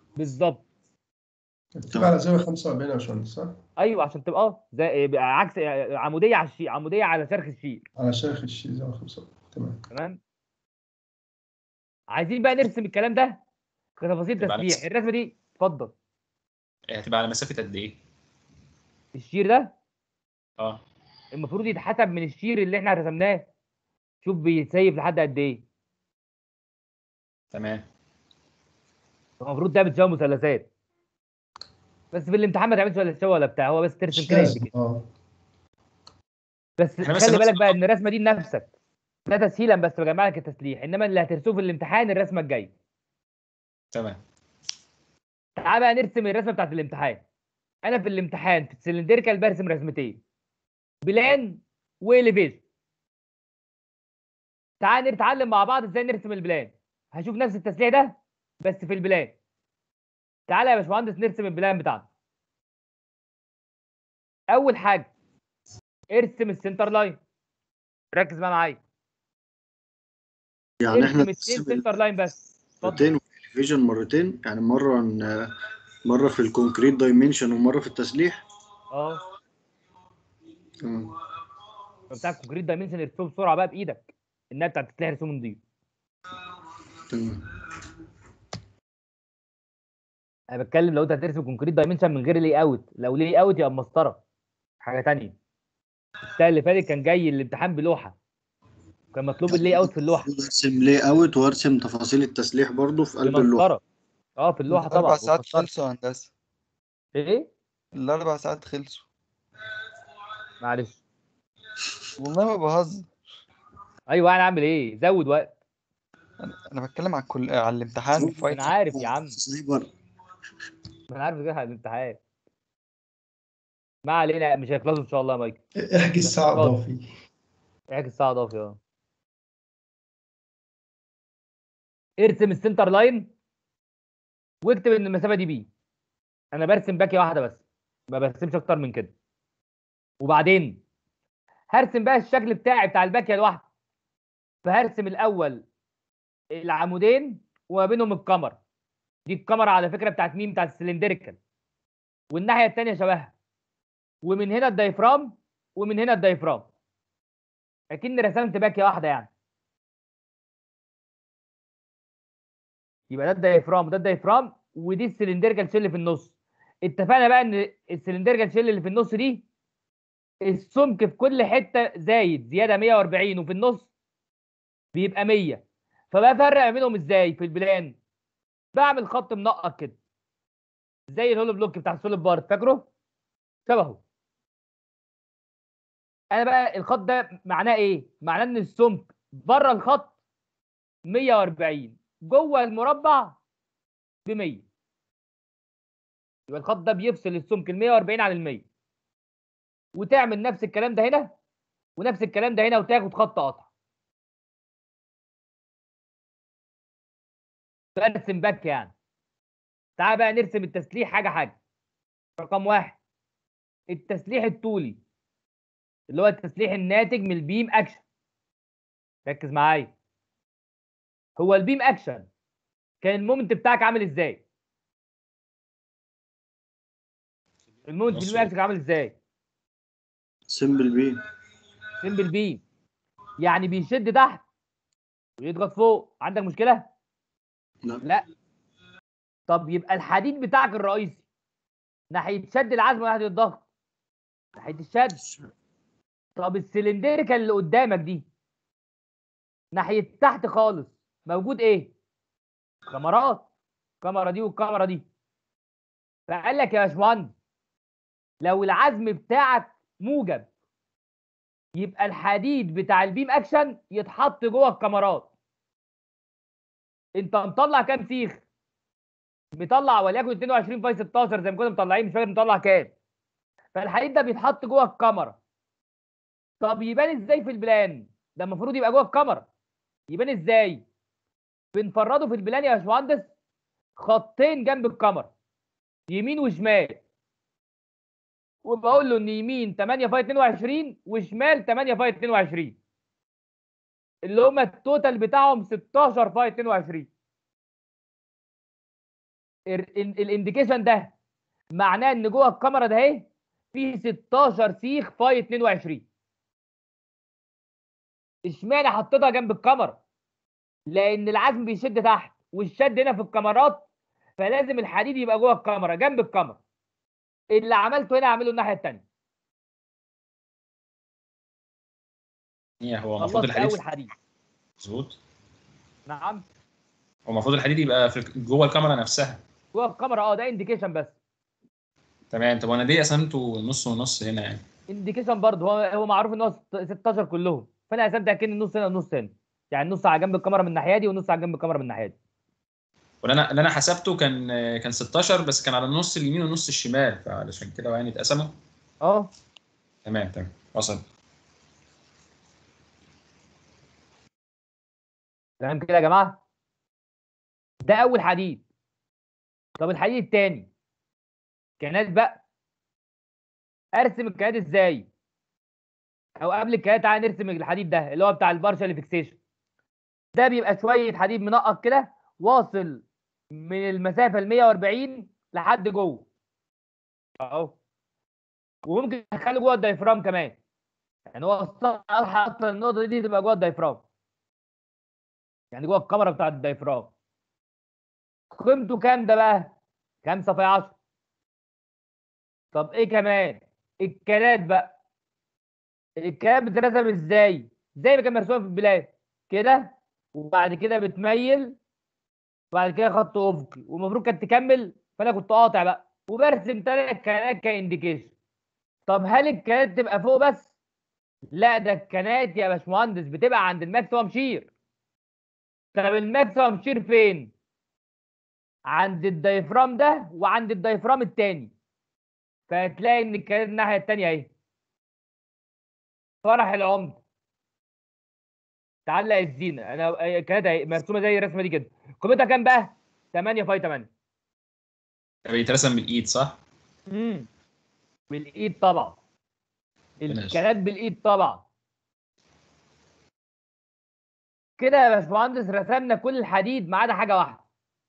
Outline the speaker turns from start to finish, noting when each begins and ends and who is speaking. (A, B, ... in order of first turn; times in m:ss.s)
0:00.2-0:00.6 A
0:01.8-0:03.6 B
0:03.8-0:07.8 A
0:08.0-0:09.8 B
0:09.9-0:10.2 A
0:12.1-0:13.4 A
0:14.0-0:15.9 A
0:14.4-0:14.8 C
0:16.9-0:18.0 C
0:19.1-0:19.7 A
0:21.3-0:23.5 A
0:24.2-0:25.6 A
0:27.5-0:27.9 C
0:29.4-0:30.7 A
0:32.1-0:34.7 A
0:34.1-0:35.1 B
0:36.8-0:38.7 A
0:37.0-0:37.8 C
0:39.3-0:42.7 A
0:43.9-0:44.2 C
0:45.6-0:47.2 A
0:47.8-0:50.2 A
0:51.0-0:52.6 A
0:54.8-0:59.4 A
1:00.5-1:02.1 A
1:04.5-1:05.1 A
1:06.1-1:07.2 A
1:08.1-1:08.8 A
1:10.8-1:11.8 D
1:10.9-1:13.1 A
1:12.8-1:15.5 D
1:16.1-1:18.4 D
1:18.9-1:19.2 A
1:20.8-1:21.1 D
1:22.1-1:25.6 A
1:27.1-1:27.4 D
1:30.5-1:34.2 A
1:34.8-1:35.4 A
1:36.4-1:38.2 A
1:39.1-1:40.3 A
1:39.5-1:43.7 D
1:43.2-1:43.8 A
1:44.4-1:45.7 A
1:44.7-1:46.3 E
1:47.2-1:47.5 A
1:48.0-1:49.0 E
1:50.6-1:51.0 A
1:52.2-1:53.1 E
1:54.1-1:55.5 A
1:56.4-1:58.6 E
1:58.2-1:59.9 D
1:58.5-1:59.4 A
2:01.1-2:02.2 A
2:04.0-2:05.6 A
2:05.8-2:07.1 B
2:06.2-2:06.7 A
2:07.9-2:08.8 A
2:12.2-2:13.3 A
2:14.6-2:15.7 A
2:16.5-2:17.6 A
2:18.1-2:19.1 A
2:20.2-2:20.8 A
2:21.7-2:23.6 A
2:24.6-2:25.6 A
2:26.6-2:28.6 A
2:29.3-2:31.4 A
2:32.3-2:33.3 A
2:34.2-2:36.7 A
2:37.9-2:39.3 A
2:43.1-2:46.3 A
2:46.8-2:49.4 A
2:50.4-2:53.9 A
2:54.9-2:58.0 A
2:58.8-3:00.0 A
3:01.1-3:02.9 A
3:03.7-3:04.0 A
3:06.3-3:10.1 A
3:11.1-3:13.4 A
3:14.3-3:14.6 A
3:16.5-3:18.6 A
3:20.0-3:21.3 A
3:22.0-3:23.6 A
3:28.0-3:28.9 A
3:30.0-3:31.6 A
3:32.4-3:33.0 A
3:33.9-3:35.0 A
3:36.1-3:38.0 A
3:39.3-3:39.9 A
3:41.4-3:42.3 A
3:43.0-3:44.4 A
3:47.9-3:49.2 A
3:48.1-3:48.5 C
3:50.5-3:51.2 D
3:52.0-3:52.6 A
3:53.4-3:54.4 A
3:55.4-3:56.9 A
3:59.5-4:01.2 A
4:02.1-4:03.6 A
4:04.6-4:05.2 A
4:06.4-4:08.2 A
4:09.7-4:11.9 A
4:12.9-4:13.4 A
4:14.0-4:15.0 A
4:16.3-4:17.3 A
4:18.4-4:20.5 A
4:21.8-4:25.3 A
4:27.2-4:28.4 A
4:29.6-4:32.9 A
4:33.7-4:35.4 A
4:36.6-4:39.4 A
4:40.1-4:40.8 A
4:41.7-4:43.3 A
4:44.0-4:45.3 A
4:46.1-4:47.0 A
4:48.6-4:52.8 A
4:54.2-4:57.1 A
4:59.7-5:01.1 A
5:01.8-5:06.0 A
5:08.4-5:10.0 A
5:10.9-5:13.8 A
5:14.4-5:16.6 A
5:17.5-5:19.0 A
5:22.8-5:23.8 C
5:23.2-5:24.1 A
5:24.8-5:25.2 C
5:26.1-5:26.4 A
5:27.3-5:29.4 C
5:29.7-5:31.2 A
5:32.3-5:34.6 C
5:34.9-5:42.2 A
5:43.2-5:48.6 C
5:49.0-5:49.3 A
5:50.1-5:51.0 C
5:55.6-5:56.4 A
5:57.9-5:58.6 A
5:59.8-6:00.7 A
6:01.8-6:02.4 A
6:04.0-6:05.1 A
6:06.4-6:09.4 A
6:10.4-6:13.0 A
6:13.6-6:16.2 A
6:17.4-6:17.8 A
6:18.9-6:20.6 A
6:21.3-6:24.0 A
6:25.7-6:27.1 A
6:28.5-6:29.7 A
6:30.2-6:30.9 A
6:32.7-6:34.9 A
6:36.2-6:41.8 A
6:42.7-6:48.3 A
6:49.1-6:50.7 A
6:51.5-6:54.7 A
6:56.0-6:57.5 A
6:58.9-7:01.7 A
7:02.7-7:04.5 A
7:06.4-7:07.2 A
7:09.1-7:14.1 A
7:15.5-7:16.6 C
7:17.1-7:17.5 A
7:18.3-7:19.2 A
7:20.2-7:21.6 A
7:20.3-7:20.6 C
7:24.8-7:27.6 A